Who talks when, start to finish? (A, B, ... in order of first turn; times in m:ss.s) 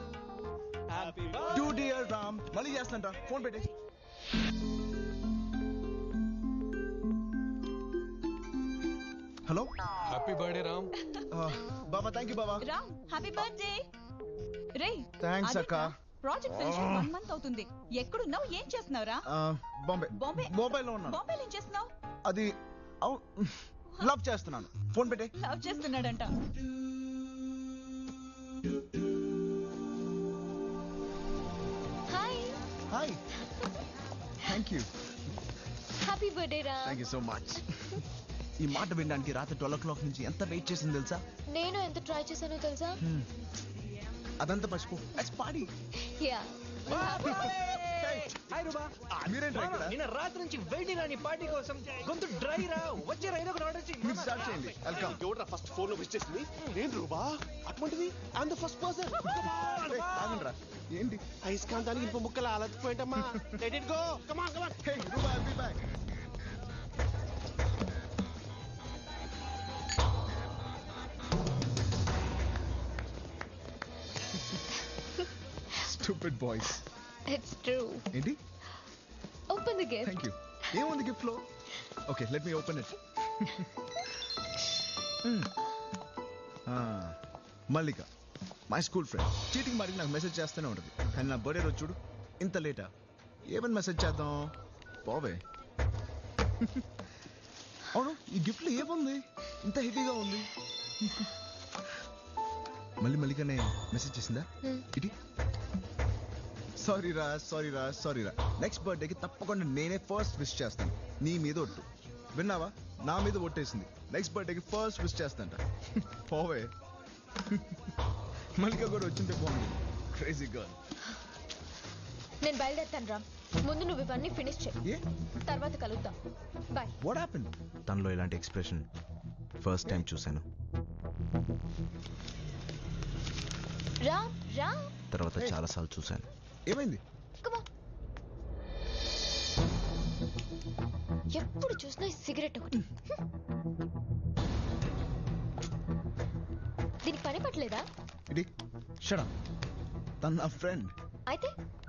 0:00.9-0:01.6 A
0:01.5-0:03.7 B
0:09.5-0:09.7 B
0:10.1-0:10.9 A
0:11.3-0:12.7 B
0:12.7-0:13.8 C
0:14.8-0:19.2 C
0:15.2-0:15.9 B
0:16.6-0:17.1 B
0:19.3-0:21.2 B
0:21.1-0:21.9 C
0:23.0-0:25.3 B
0:25.4-0:26.4 C
0:32.1-0:32.6 D
0:32.9-0:33.2 B
0:34.4-0:34.9 B
0:36.0-0:37.0 D
0:36.8-0:38.0 B
0:38.6-0:41.2 B
0:41.5-0:43.0 D
0:43.0-0:43.3 B
0:44.4-0:45.7 B
0:46.0-0:47.5 D
0:46.9-0:54.4 A
0:47.9-0:48.4 B
0:49.2-0:50.0 B
0:54.0-0:55.2 B
0:54.5-0:59.2 E
0:59.2-1:00.4 A
0:59.9-1:01.2 B
1:01.4-1:04.8 E
1:04.8-1:06.0 B
1:15.7-1:16.8 B
1:17.3-1:18.1 D
1:18.1-1:18.4 B
1:19.5-1:20.2 D
1:20.0-1:21.4 B
1:22.1-1:23.7 B
1:25.2-1:25.5 B
1:26.7-1:27.2 B
1:27.7-1:28.1 B
1:28.7-1:32.9 B
1:33.5-1:34.5 B
1:35.0-1:35.4 B
1:36.6-1:36.9 B
1:37.9-1:40.5 B
1:41.0-1:41.3 B
1:43.0-1:45.1 B
1:46.8-1:56.7 B
1:57.4-1:57.9 B
1:58.6-2:00.8 B
2:02.4-2:04.8 D
2:05.5-2:06.1 D
2:07.0-2:08.8 B
2:09.6-2:10.4 B
2:14.0-2:14.9 D
2:15.2-2:15.7 E
2:15.3-2:17.0 B
2:21.3-2:23.2 D
2:27.0-2:27.8 D
2:29.0-2:29.3 B
2:30.2-2:30.9 B